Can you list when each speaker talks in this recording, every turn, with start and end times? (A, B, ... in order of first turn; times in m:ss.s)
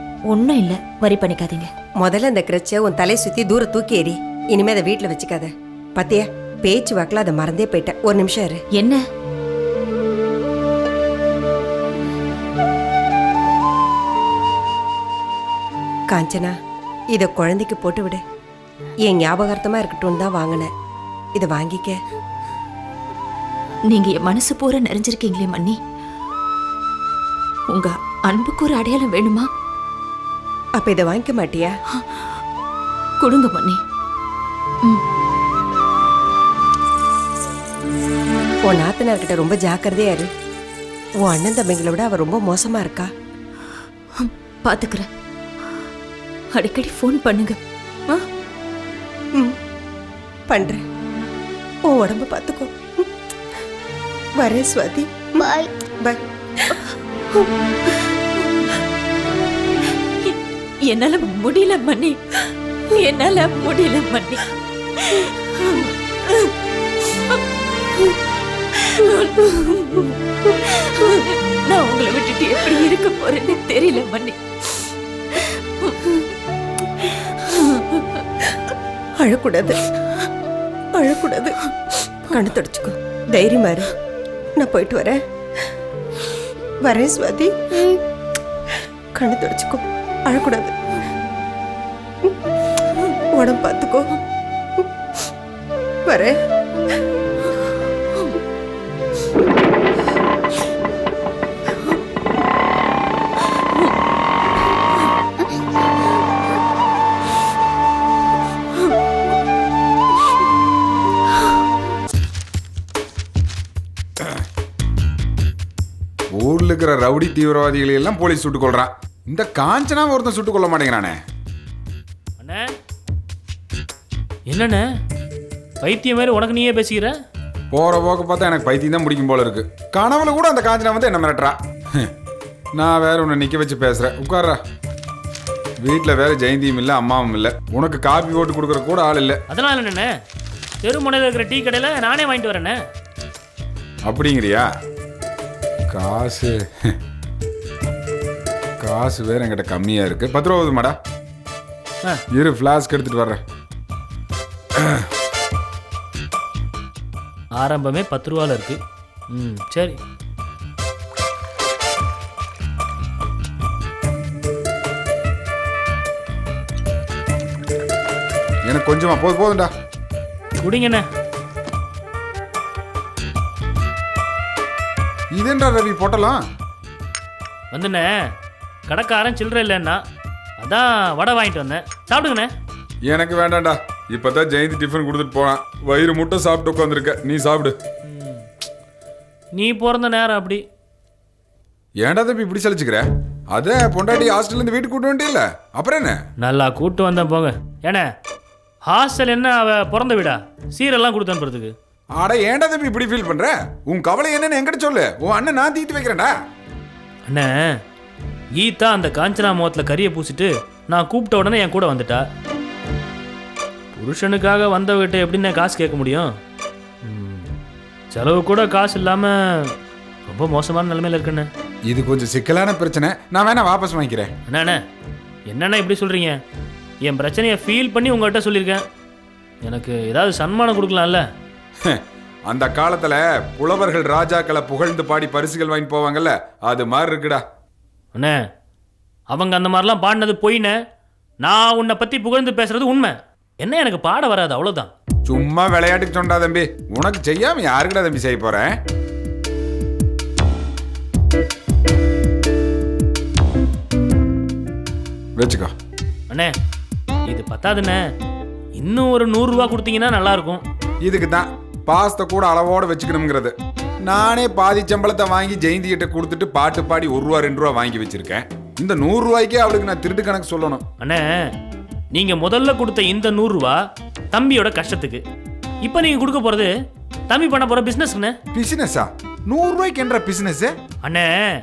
0:00.3-0:01.7 A
0:02.0-0:08.6 B
0:08.7-0:09.0 A
0:16.1-0:16.5 B
0:17.1-0:18.2 B
0:19.1-0:20.7 B
0:21.4-0:22.0 B
0:23.9-0:25.8 A
0:27.7-0:29.5 A
0:30.8-0:31.7 B
0:33.2-0:33.8 A
0:38.7-0:40.3 B
0:41.2-0:43.1 B
0:44.2-0:45.1 A
0:46.5-0:48.2 A
0:50.5-0:50.8 B
0:51.9-0:52.8 B
0:54.4-0:56.8 B
1:00.2-1:02.2 A
1:02.9-1:06.5 A
1:08.8-1:14.4 A
1:15.3-1:16.1 A
1:17.0-1:17.8 A
1:19.2-1:19.8 B
1:21.0-1:21.6 B
1:22.3-1:23.9 B
1:24.6-1:25.2 B
1:26.8-1:28.0 B
1:29.2-1:30.7 B
1:33.4-1:34.1 B
1:36.1-1:36.3 B
1:56.4-2:01.2 C
2:02.4-2:02.6 D
2:04.5-2:04.8 D
2:05.8-2:07.1 D
2:07.7-2:12.1 C
2:12.8-2:14.6 C
2:15.8-2:19.4 C
2:19.5-2:20.1 D
2:20.8-2:22.8 D
2:24.0-2:24.7 C
2:25.9-2:27.0 C
2:28.8-2:31.0 C
2:32.3-2:33.4 C
2:34.8-2:35.1 C
2:37.6-2:38.8 D
2:39.3-2:40.0 D
2:48.6-2:49.7 C
2:50.6-2:51.0 D
2:55.3-2:56.4 C
2:57.7-2:58.1 D
2:58.9-3:00.0 D
3:00.6-3:02.5 D
3:03.1-3:07.8 C
3:08.0-3:08.4 D
3:09.6-3:10.6 D
3:12.0-3:16.2 C
3:16.4-3:18.1 D
3:18.9-3:21.7 D
3:22.2-3:26.3 C
3:27.3-3:27.5 D
3:28.6-3:32.2 D
3:34.0-3:36.3 D
3:37.0-3:37.5 D
3:38.1-3:39.7 D
3:40.3-3:41.5 D
3:41.9-3:44.3 C
3:44.5-3:44.8 D
3:45.5-3:46.4 D
3:47.0-3:48.8 D
3:49.6-3:51.2 D
3:51.9-3:57.4 C
3:59.3-4:00.7 D
4:01.4-4:04.9 D
4:05.3-4:08.7 C
4:15.4-4:15.7 C
4:17.3-4:18.0 D
4:18.8-4:20.6 D
4:21.0-4:23.5 C
4:24.1-4:30.8 C
4:32.1-4:33.8 D
4:34.3-4:35.2 D
4:35.8-4:36.7 D
4:37.3-4:38.4 D
4:38.5-4:40.7 C
4:41.0-4:41.3 D